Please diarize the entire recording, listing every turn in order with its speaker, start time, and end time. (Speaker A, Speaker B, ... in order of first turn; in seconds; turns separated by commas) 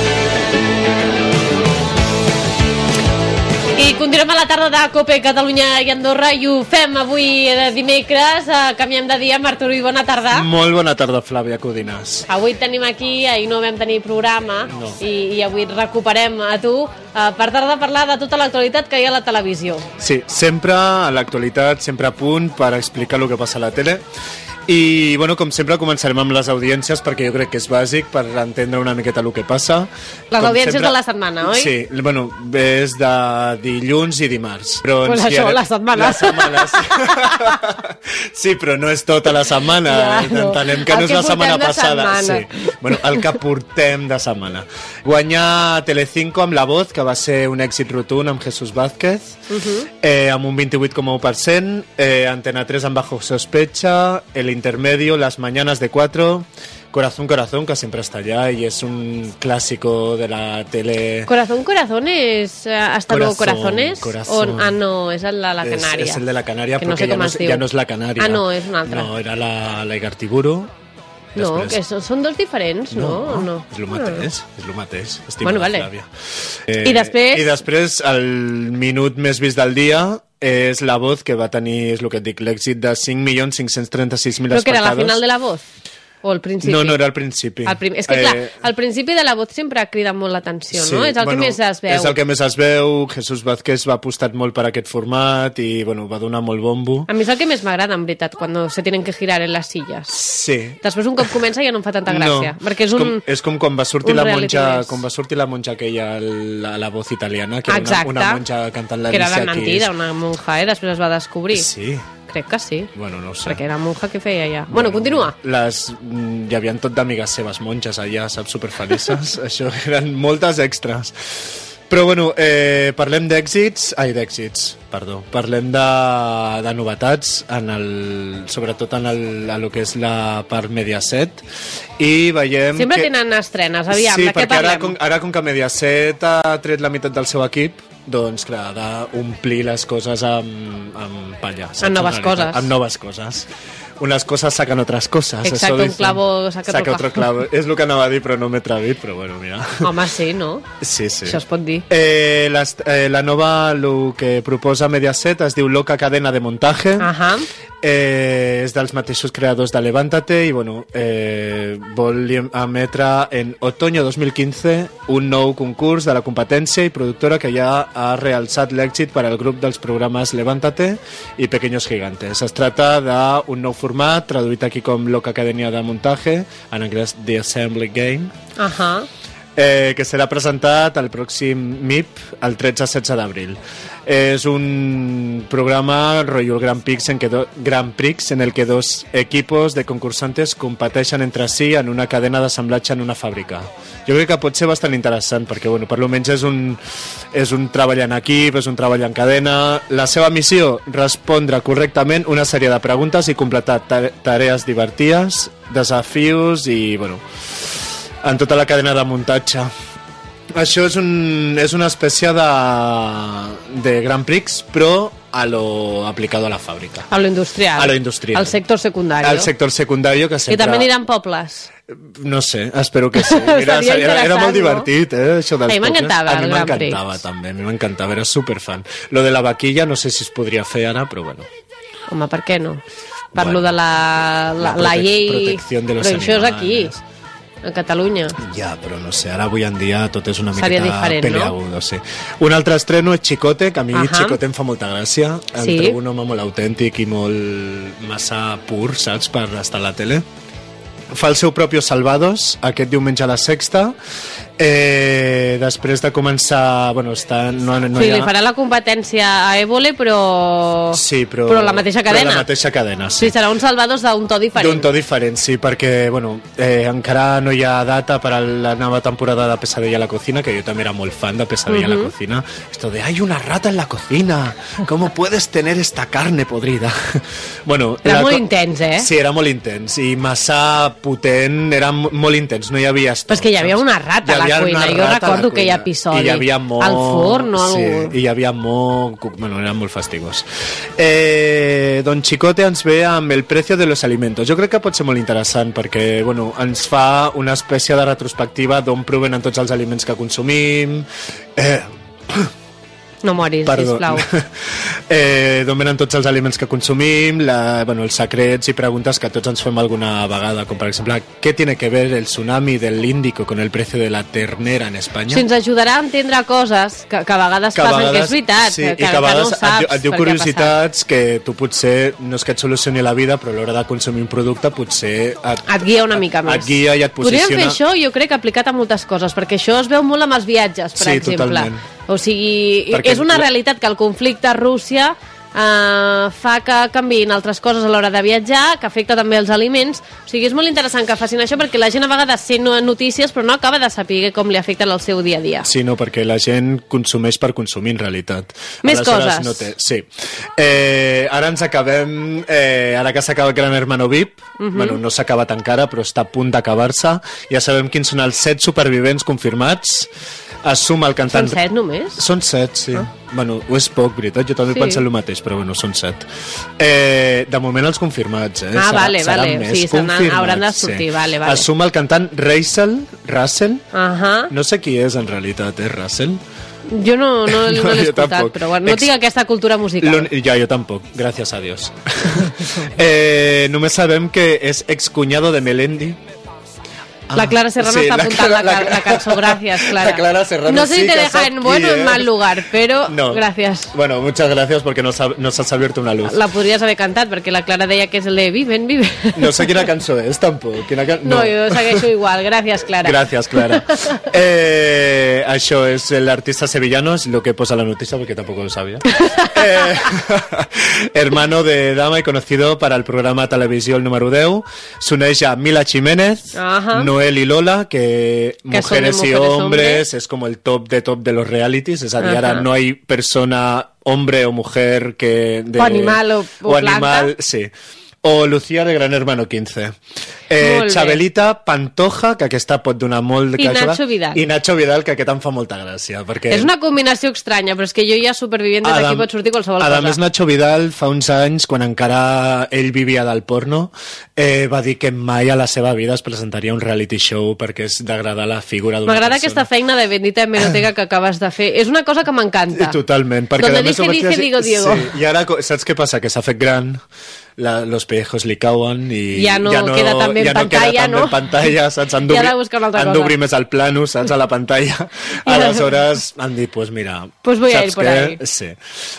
Speaker A: 3.8-10.5, Speaker B: 10.3-12.3, Speaker A: 12.3-19.9, Speaker B: 14.7-15.0, Speaker B: 20.0-24.0, Speaker B: 24.7-49.4, Speaker A: 30.3-31.7, Speaker A: 35.0-37.6, Speaker A: 39.8-43.3, Speaker A: 49.5-49.9, Speaker B: 50.0-61.3, Speaker A: 61.3-66.2, Speaker B: 63.1-64.8, Speaker B: 65.6-70.7, Speaker A: 66.8-67.6, Speaker A: 68.2-69.1, Speaker B: 71.3-71.8, Speaker A: 71.4-74.2, Speaker B: 72.9-76.1, Speaker A: 75.4-75.9, Speaker B: 76.7-85.2, Speaker A: 76.8-77.6, Speaker A: 84.5-85.6, Speaker A: 86.2-87.0, Speaker B: 86.6-88.5, Speaker A: 87.6-92.2, Speaker B: 90.7-97.1, Speaker A: 97.1-100.1, Speaker B: 100.1-101.3, Speaker A: 100.8-103.2, Speaker B: 102.1-109.9, Speaker A: 104.0-105.0, Speaker A: 107.7-108.4, Speaker A: 109.1-111.7, Speaker B: 111.5-112.0, Speaker A: 112.2-112.9, Speaker B: 112.9-113.6, Speaker A: 113.4-115.3, Speaker B: 114.7-131.4, Speaker B: 132.0-133.1, Speaker A: 132.8-134.9, Speaker B: 133.9-143.5, Speaker A: 141.8-142.7, Speaker B: 144.0-149.9, Speaker A: 145.4-147.2, Speaker A: 149.8-150.7, Speaker B: 150.8-157.1, Speaker A: 151.2-151.8, Speaker A: 157.0-157.5, Speaker B: 157.8-178.3, Speaker A: 178.6-179.1, Speaker B: 179.6-196.8, Speaker B: 197.3-207.7, Speaker B: 208.2-209.7, Speaker B: 210.5-217.1, Speaker A: 217.1-219.5, Speaker B: 217.8-218.6, Speaker B: 219.2-220.9, Speaker A: 220.5-221.7, Speaker B: 221.9-231.5, Speaker A: 223.1-224.9, Speaker A: 225.7-227.2, Speaker A: 232.1-232.8, Speaker A: 233.3-236.9, Speaker B: 233.3-233.8, Speaker B: 234.6-237.0, Speaker A: 237.6-238.4, Speaker B: 238.4-250.2, Speaker A: 240.6-241.6, Speaker A: 243.9-244.4, Speaker A: 245.6-246.0, Speaker B: 251.1-253.9, Speaker B: 254.6-258.3, Speaker A: 257.9-262.5, Speaker B: 260.9-263.3, Speaker A: 263.2-264.9, Speaker B: 264.6-278.4, Speaker A: 271.7-272.1, Speaker A: 278.0-279.1, Speaker B: 278.9-302.5, Speaker A: 283.3-288.2, Speaker A: 303.2-304.3, Speaker B: 303.6-315.4, Speaker A: 315.3-320.7, Speaker B: 317.7-325.8, Speaker A: 325.6-345.7, Speaker B: 326.4-327.8, Speaker B: 331.0-331.8, Speaker B: 332.9-333.5, Speaker B: 345.6-360.1, Speaker A: 348.8-349.7, Speaker A: 354.6-355.0, Speaker B: 360.6-361.6, Speaker A: 361.3-362.2, Speaker B: 362.1-366.3, Speaker A: 364.7-365.0, Speaker B: 366.8-373.8, Speaker A: 368.7-371.7, Speaker A: 373.9-374.5, Speaker B: 374.5-376.4, Speaker A: 376.9-380.3, Speaker B: 377.5-379.1, Speaker B: 380.0-386.2, Speaker B: 387.3-396.4, Speaker A: 387.3-393.9, Speaker A: 396.2-399.8, Speaker B: 399.3-402.1, Speaker A: 401.2-404.2, Speaker B: 403.0-427.7, Speaker A: 409.1-410.0, Speaker A: 416.5-417.1, Speaker A: 418.7-420.1, Speaker A: 422.2-422.7, Speaker A: 425.8-427.3, Speaker B: 428.2-429.9, Speaker B: 430.5-436.7, Speaker A: 430.6-431.2, Speaker A: 433.6-434.4, Speaker A: 436.5-440.2, Speaker B: 438.8-449.7, Speaker A: 449.0-453.0, Speaker B: 452.7-457.0, Speaker A: 453.6-455.1, Speaker B: 457.6-468.8, Speaker A: 459.3-461.6, Speaker A: 462.2-463.3, Speaker A: 465.4-465.9, Speaker A: 467.4-468.4